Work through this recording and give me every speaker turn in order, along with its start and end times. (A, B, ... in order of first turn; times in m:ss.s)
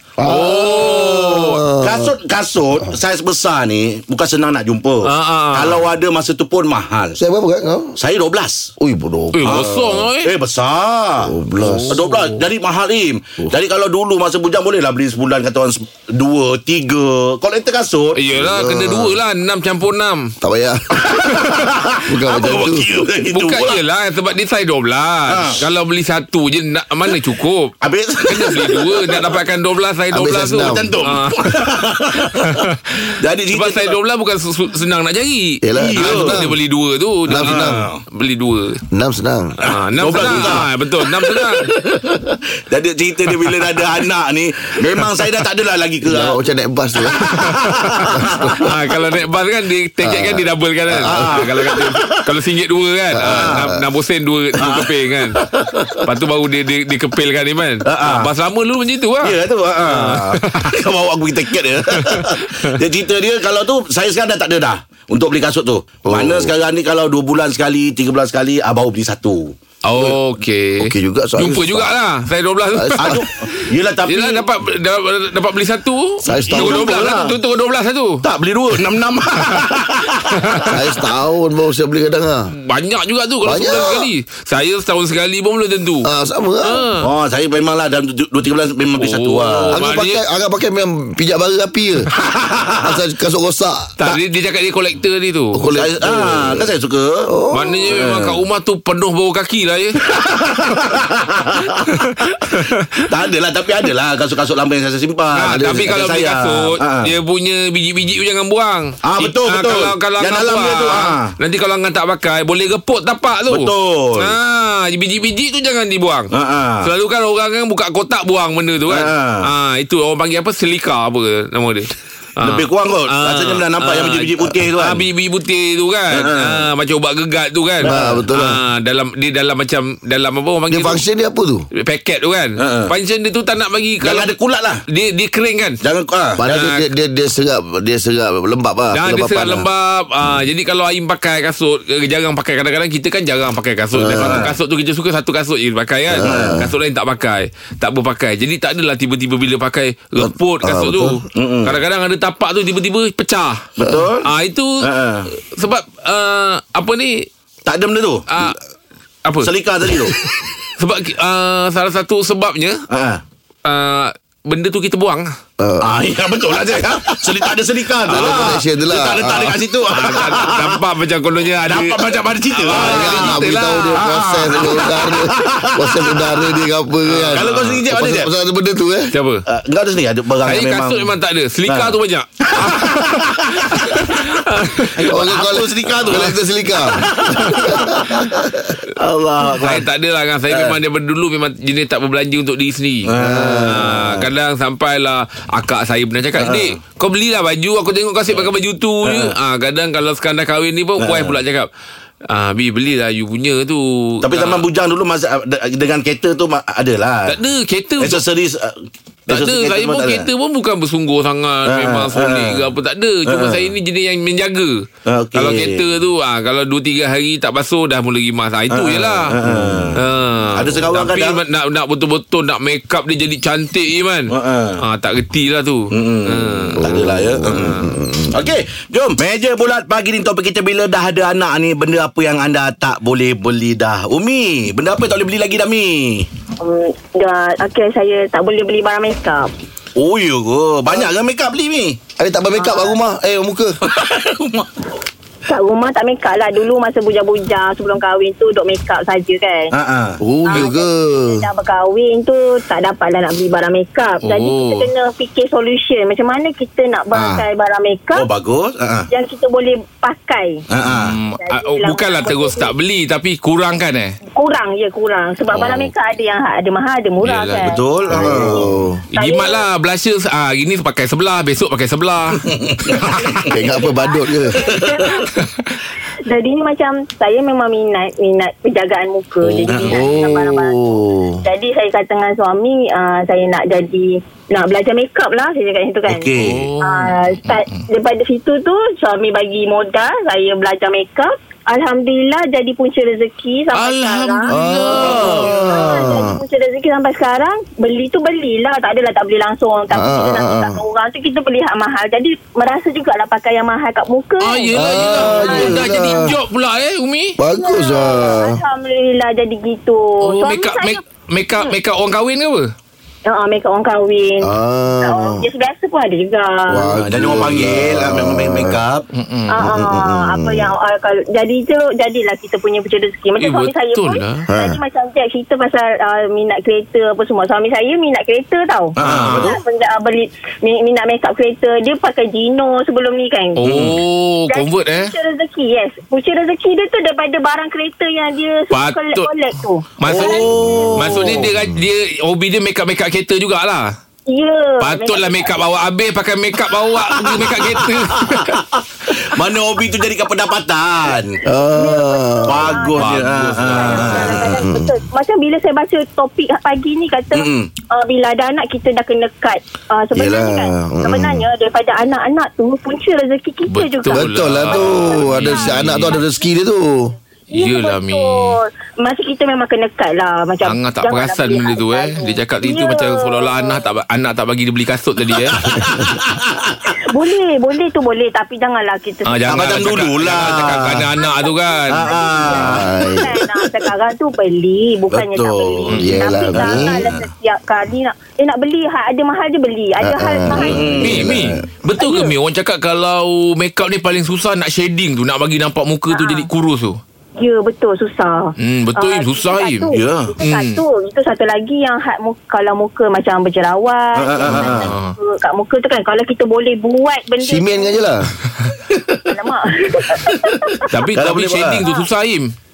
0:00.2-0:02.1 A
0:00.2-0:01.6 B
0:01.8-0:07.2 C
0:05.0-0:05.9 B
0:07.2-0:08.0 A
0:08.0-0:08.7 C
0:08.8-0:09.8 A
0:09.3-0:10.3 B
0:09.4-0:11.3 C
0:11.2-0:12.0 A
0:11.6-0:12.4 B
0:11.9-0:18.2 C
0:18.2-0:20.3 B
0:18.4-0:19.2 A
0:20.4-0:21.1 A
0:21.1-0:23.8 C
0:22.1-0:22.9 A
0:23.2-0:27.7 B
0:25.3-0:25.6 C
0:27.8-0:29.4 C
0:28.3-0:31.7 B
0:30.1-0:30.9 A
0:30.6-0:32.6 C
0:32.4-0:32.9 B
0:33.2-0:34.0 C
0:33.5-0:38.8 B
0:35.6-0:36.6 A
0:35.8-0:36.5 C
0:37.3-0:37.9 A
0:37.3-0:38.0 C
0:38.9-0:39.6 A
0:39.6-0:41.7 B
0:39.7-0:46.4 C
0:40.2-0:40.6 A
0:46.0-0:47.2 A
0:47.0-0:48.6 C
0:47.2-0:55.4 B
0:48.2-0:48.6 A
0:50.0-0:50.5 A
0:50.9-0:52.2 C
0:51.0-0:51.4 A
0:53.2-0:53.6 A
0:53.2-0:53.7 C
0:54.6-0:56.0 C
0:56.0-1:00.7 B
0:57.8-0:58.3 C
0:59.2-1:10.1 C
1:02.0-1:02.3 B
1:06.0-1:06.5 A
1:09.8-1:18.2 B
1:10.8-1:12.0 A
1:12.7-1:13.2 A
1:13.0-1:14.4 C
1:16.2-1:16.9 A
1:16.5-1:17.3 C
1:18.2-1:20.7 C
1:20.4-1:20.7 B
1:20.7-1:22.5 A
1:22.6-1:26.1 B
1:23.4-1:24.1 A
1:26.0-1:26.8 A
1:26.6-1:27.1 B
1:27.0-1:29.8 C
1:29.0-1:30.2 B
1:29.7-1:32.1 A
1:32.3-1:32.9 C
1:32.8-1:34.2 A
1:34.0-1:35.6 B
1:35.5-1:36.7 A
1:35.7-1:37.3 C
1:37.3-1:37.9 A
1:37.5-1:40.0 B
1:37.9-1:38.4 C
1:40.1-1:41.9 C
1:42.1-1:43.0 B
1:43.1-1:47.1 C
1:45.3-1:56.3 B
1:49.0-1:51.3 C
1:53.5-1:54.3 C
1:56.3-1:56.9 C
1:56.8-2:11.0 B
1:58.9-1:59.5 C
2:02.4-2:05.1 C
2:06.1-2:06.6 C
2:07.8-2:08.6 A
2:07.8-2:08.1 C
2:10.7-2:11.7 A
2:11.7-2:14.3 B
2:12.6-2:12.9 C
2:14.0-2:14.8 C
2:14.9-2:15.8 B
2:15.8-2:16.6 C
2:16.4-2:19.7 A
2:16.5-2:16.8 B
2:18.9-2:33.7 B
2:24.0-2:24.5 A
2:24.0-2:24.5 C
2:26.1-2:26.7 A
2:26.2-2:26.7 C
2:30.2-2:31.2 A
2:31.3-2:31.8 C
2:33.8-2:34.3 C
2:34.2-2:37.3 B
2:34.8-2:35.3 C
2:37.6-2:38.2 C
2:38.3-2:38.6 B
2:39.2-2:39.5 B
2:39.4-2:40.2 C
2:40.8-2:42.8 B
2:42.9-2:43.2 C
2:43.6-2:45.3 B
2:45.6-2:46.0 A
2:45.8-2:50.8 C
2:48.1-2:48.6 B
2:48.1-2:49.6 A
2:49.9-2:54.0 B
2:51.6-2:56.4 C
2:52.7-2:59.1 A
2:57.1-2:57.8 B
2:57.2-2:58.3 C
2:59.1-2:59.4 B
2:59.5-3:01.1 C
3:00.4-3:05.0 B
3:01.6-3:01.9 C
3:02.4-3:03.8 C
3:04.9-3:06.4 C
3:05.0-3:08.4 A
3:07.0-3:08.2 C
3:07.3-3:07.8 B
3:09.0-3:09.9 C
3:09.6-3:21.7 B
3:10.5-3:10.8 C
3:13.0-3:14.2 C
3:13.2-3:14.0 A
3:16.4-3:16.8 C
3:19.0-3:19.3 C
3:21.0-3:21.4 C
3:22.2-3:24.7 B
3:24.2-3:27.4 C
3:27.3-3:28.2 B
3:28.0-3:30.3 C
3:29.3-3:39.4 B
3:31.6-3:32.6 C
3:33.2-3:33.7 C
3:35.0-3:35.8 C
3:38.7-3:41.4 C
3:40.0-3:47.9 B
3:44.3-3:44.8 C
3:45.9-3:56.3 C
3:46.8-3:48.4 A
3:56.6-3:59.5 D
4:00.0-4:02.0 C
4:02.2-4:03.8 A
4:02.6-4:02.9 D
4:03.8-4:04.7 C
4:05.5-4:09.7 D
4:09.7-4:10.2 C
4:10.2-4:11.4 A
4:10.4-4:18.2 D
4:14.2-4:14.9 B
4:17.1-4:17.4 A
4:18.1-4:19.1 C
4:19.1-4:20.6 D
4:20.7-4:21.2 C
4:20.9-4:24.2 B
4:21.4-4:22.7 D
4:24.3-4:27.8 D
4:27.2-4:27.6 B
4:27.6-4:28.8 C
4:28.1-4:29.0 A
4:29.1-4:32.5 B
4:29.2-4:29.6 D
4:32.3-4:33.5 C
4:33.0-4:35.3 D
4:33.5-4:34.7 A
4:34.7-4:35.2 C
4:36.3-4:40.8 D
4:39.6-4:41.4 A
4:39.7-4:40.0 C
4:41.4-5:05.9 D
4:46.1-4:46.7 C
4:46.4-4:47.8 B
4:53.7-4:55.5 B
4:54.5-4:56.4 A
4:55.1-4:55.4 C
4:59.9-5:00.8 A
5:04.4-5:07.4 B
5:04.7-5:06.3 A
5:07.4-5:08.6 A
5:07.5-5:11.0 D
5:10.2-5:12.7 B
5:13.2-5:14.5 D
5:14.4-5:15.4 A
5:15.0-5:16.9 D
5:16.7-5:18.8 A
5:17.0-5:19.0 C
5:19.1-5:19.6 B
5:19.5-5:33.7 D
5:19.6-5:20.7 A
5:23.4-5:24.4 B
5:24.5-5:24.8 A
5:29.0-5:29.6 C
5:29.0-5:29.5 B
5:33.6-5:35.1 B
5:33.6-5:34.0 C
5:34.5-5:40.9 D
5:38.7-5:39.3 B
5:40.0-5:43.9 B
5:40.0-5:41.5 C
5:44.3-5:45.6 D
5:44.8-5:48.6 B
5:47.1-5:51.4 C
5:51.4-5:52.8 A
5:51.6-6:05.7 D
5:52.5-5:54.6 C
5:53.0-5:54.4 B
5:54.6-5:54.9 A
5:57.3-5:57.7 C
6:00.1-6:01.4 A
6:03.7-6:06.2 B
6:04.1-6:07.1 A
6:07.5-6:13.8 D
6:07.5-6:08.5 B
6:10.6-6:15.7 B
6:15.6-6:16.8 C
6:17.1-6:19.5 D
6:19.2-6:22.1 B
6:19.5-6:21.1 C
6:21.2-6:31.0 D
6:21.9-6:22.9 C
6:22.5-6:23.3 A
6:25.1-6:27.2 C
6:25.9-6:26.2 B
6:26.0-6:27.1 A
6:30.0-6:31.6 A
6:30.6-6:31.4 C
6:31.0-6:37.0 B
6:32.0-6:32.3 D
6:36.1-6:36.5 D
6:37.4-6:48.0 D
6:38.6-6:40.8 B
6:39.9-6:40.3 C
6:44.1-6:44.9 C
6:44.5-6:45.1 B
6:47.4-6:48.3 A
6:48.9-6:49.3 C
6:49.2-6:50.8 D
6:50.2-6:51.8 C
6:50.9-6:52.5 B
6:51.8-6:52.1 D